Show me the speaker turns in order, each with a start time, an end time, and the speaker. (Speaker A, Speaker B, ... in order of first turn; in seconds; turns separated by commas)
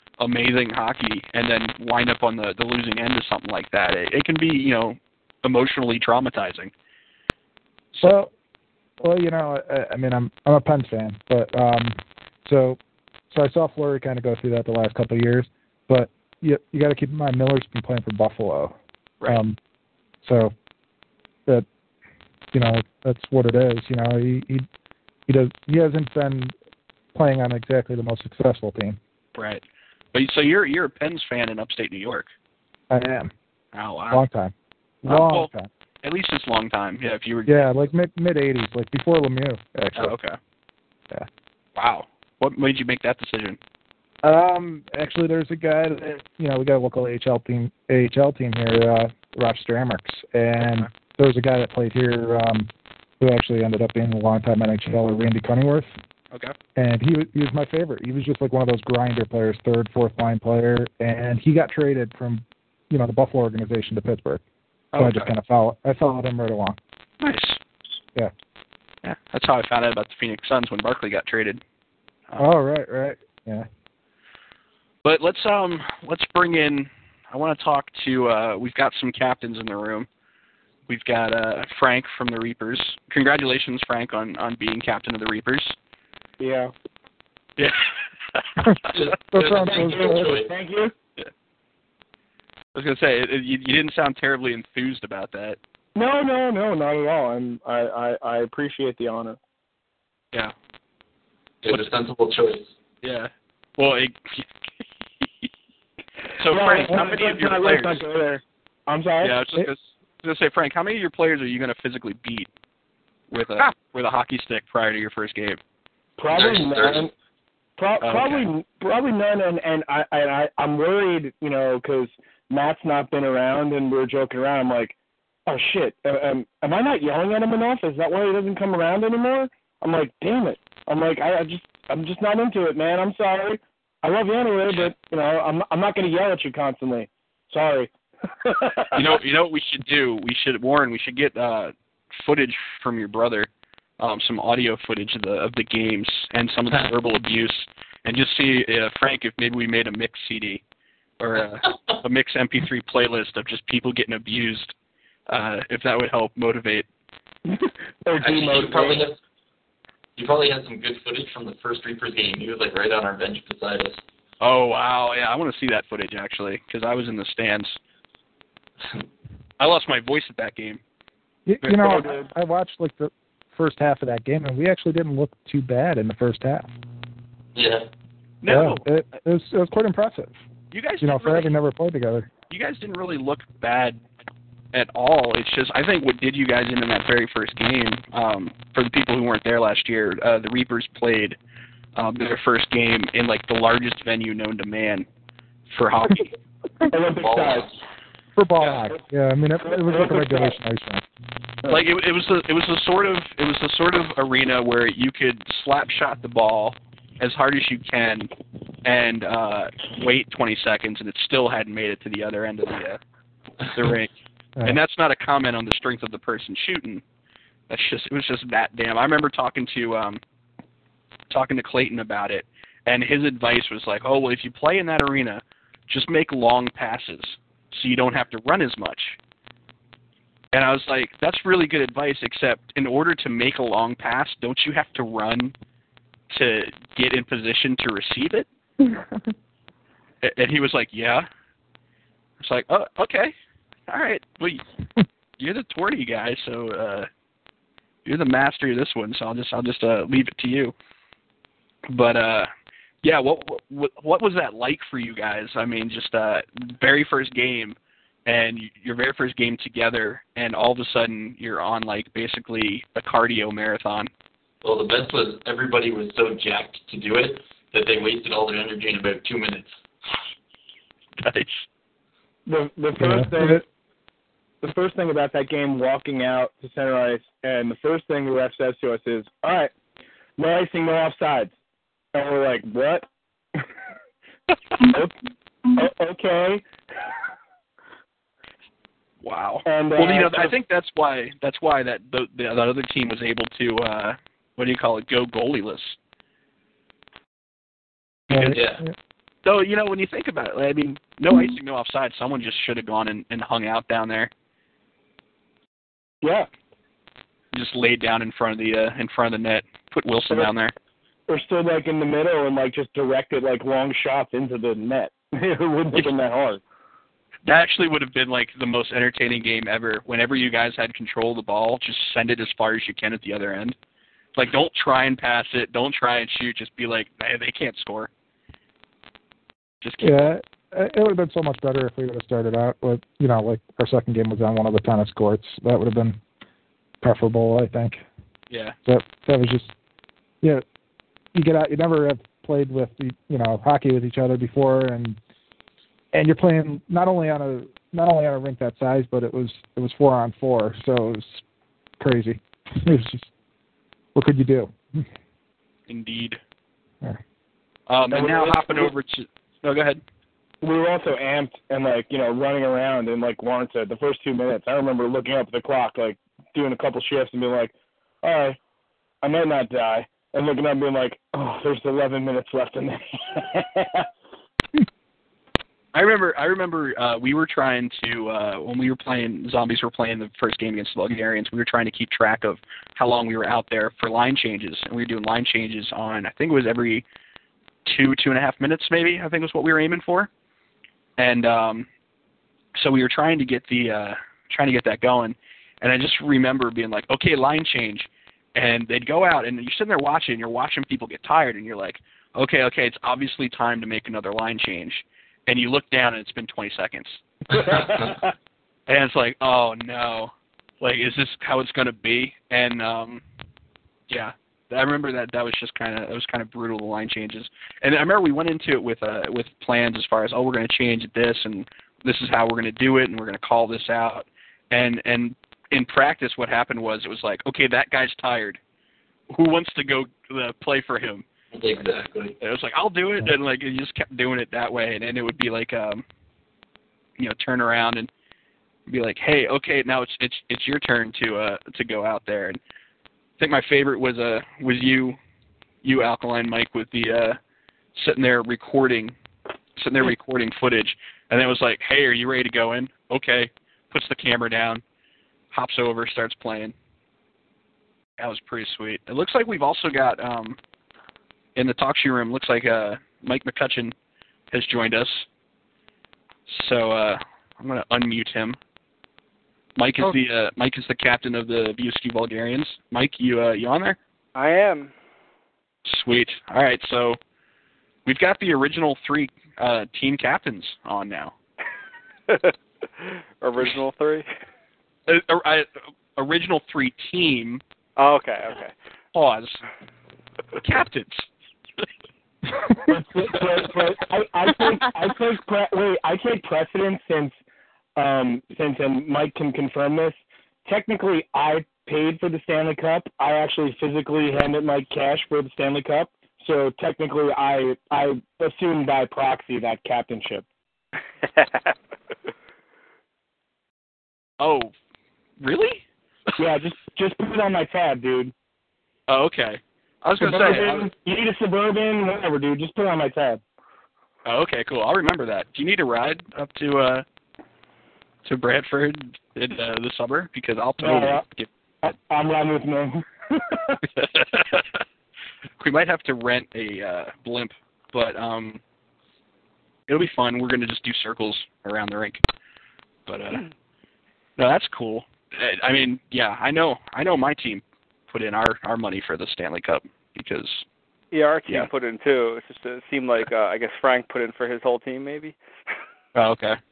Speaker A: 0.2-6.7, Speaker B: 8.0-8.3, Speaker B: 9.0-12.8, Speaker B: 13.3-19.6, Speaker B: 20.2-20.5, Speaker B: 22.5-24.7, Speaker B: 25.3-26.5, Speaker B: 27.1-29.0, Speaker A: 29.4-29.6, Speaker A: 30.1-32.3, Speaker B: 32.9-33.3, Speaker A: 33.7-34.2, Speaker B: 34.1-35.7, Speaker A: 35.0-35.5, Speaker A: 36.0-37.8, Speaker B: 37.5-40.1, Speaker A: 40.0-40.4, Speaker A: 41.8-43.6, Speaker B: 44.2-52.7, Speaker A: 50.6-50.9, Speaker B: 53.2-56.0, Speaker B: 56.8-64.4, Speaker A: 64.9-65.3, Speaker B: 65.0-66.8, Speaker A: 67.2-67.6, Speaker A: 69.0-71.6, Speaker B: 72.4-73.7, Speaker A: 75.0-80.1, Speaker A: 80.9-85.8, Speaker C: 86.4-86.7, Speaker A: 87.6-89.0, Speaker B: 88.6-90.4, Speaker D: 88.9-90.5, Speaker C: 89.5-90.9, Speaker A: 92.8-95.6, Speaker C: 96.0-99.4, Speaker D: 101.6-102.7, Speaker A: 103.0-104.5, Speaker A: 106.4-108.0, Speaker C: 106.5-109.7, Speaker A: 109.2-112.5, Speaker A: 113.3-115.6, Speaker C: 116.2-117.1, Speaker A: 116.3-117.0, Speaker D: 116.4-116.8, Speaker C: 117.8-125.0, Speaker A: 118.0-118.5, Speaker C: 125.5-139.2, Speaker A: 138.9-143.5, Speaker A: 144.0-150.6, Speaker A: 151.2-154.7, Speaker D: 151.6-151.9, Speaker A: 155.3-156.9, Speaker C: 157.5-159.1, Speaker D: 158.2-159.2, Speaker D: 160.2-164.0, Speaker A: 164.4-167.8, Speaker A: 169.6-170.8, Speaker B: 171.5-176.7, Speaker C: 171.8-172.3, Speaker D: 177.6-177.9, Speaker A: 178.4-178.8, Speaker B: 178.5-180.4, Speaker A: 180.7-181.5, Speaker B: 181.0-182.3, Speaker A: 182.5-184.0, Speaker A: 184.7-191.4, Speaker A: 191.9-195.1, Speaker A: 195.7-196.3, Speaker C: 196.9-197.7, Speaker D: 197.2-197.7, Speaker B: 198.4-201.0, Speaker C: 199.7-200.6, Speaker A: 201.7-208.3, Speaker A: 208.8-213.0, Speaker A: 213.7-214.1, Speaker A: 214.6-217.0, Speaker A: 217.7-220.2, Speaker A: 221.3-229.2, Speaker A: 230.5-235.5, Speaker A: 236.3-238.5, Speaker A: 240.2-241.3, Speaker A: 242.4-243.3, Speaker A: 243.9-244.6, Speaker A: 245.4-247.1, Speaker A: 248.1-250.7, Speaker A: 251.9-252.5, Speaker A: 253.0-264.1, Speaker D: 264.6-269.7, Speaker A: 271.2-271.7, Speaker C: 272.5-273.6, Speaker B: 273.0-273.6, Speaker C: 274.6-279.7, Speaker C: 280.4-281.5, Speaker C: 282.1-283.1, Speaker C: 284.8-285.1, Speaker C: 285.8-286.6, Speaker A: 289.2-296.0, Speaker C: 289.7-290.5, Speaker A: 298.3-298.6, Speaker B: 298.3-298.9, Speaker D: 298.4-298.8, Speaker A: 299.4-304.3, Speaker C: 306.2-306.5, Speaker A: 307.5-310.7, Speaker C: 311.3-316.6, Speaker A: 317.4-323.8, Speaker A: 324.4-328.1, Speaker A: 329.8-330.3, Speaker B: 330.0-336.2, Speaker B: 337.0-338.0, Speaker A: 338.5-338.8, Speaker B: 338.9-339.7, Speaker B: 341.3-345.2, Speaker B: 346.1-351.4, Speaker B: 352.0-353.3, Speaker B: 354.1-355.1, Speaker A: 355.9-356.4, Speaker A: 357.9-360.0, Speaker C: 358.1-358.9, Speaker C: 360.6-368.6, Speaker C: 369.2-374.1, Speaker A: 375.9-387.1, Speaker A: 387.9-390.3, Speaker A: 391.2-391.9, Speaker A: 392.8-407.2, Speaker C: 407.6-408.2, Speaker A: 408.9-413.2, Speaker A: 414.1-428.6, Speaker A: 429.3-431.2, Speaker D: 431.5-432.4, Speaker A: 432.4-436.0, Speaker A: 437.2-438.1, Speaker A: 438.9-442.6, Speaker A: 443.4-445.2, Speaker A: 445.8-447.4, Speaker A: 448.0-449.1, Speaker A: 449.8-454.8, Speaker A: 455.5-456.7, Speaker A: 458.2-460.6, Speaker A: 461.6-463.9, Speaker A: 464.5-465.3, Speaker A: 466.5-468.6, Speaker A: 469.8-474.0, Speaker E: 474.4-474.9, Speaker A: 475.9-477.2, Speaker A: 478.1-481.3, Speaker E: 482.3-484.3, Speaker A: 485.1-487.6, Speaker E: 488.0-488.7, Speaker A: 489.1-489.6, Speaker A: 490.6-491.3, Speaker C: 492.9-497.4, Speaker C: 498.0-510.4, Speaker E: 511.3-511.7, Speaker A: 514.4-514.7, Speaker A: 515.4-515.8, Speaker C: 516.4-518.3, Speaker A: 519.1-520.9, Speaker C: 520.2-523.4, Speaker A: 524.2-527.0, Speaker A: 528.2-531.5, Speaker C: 530.8-531.2, Speaker C: 531.8-533.8, Speaker A: 534.0-534.8, Speaker A: 535.6-538.6, Speaker A: 539.9-542.2, Speaker A: 543.1-543.4, Speaker A: 544.4-550.6, Speaker E: 551.1-555.4, Speaker A: 556.1-556.6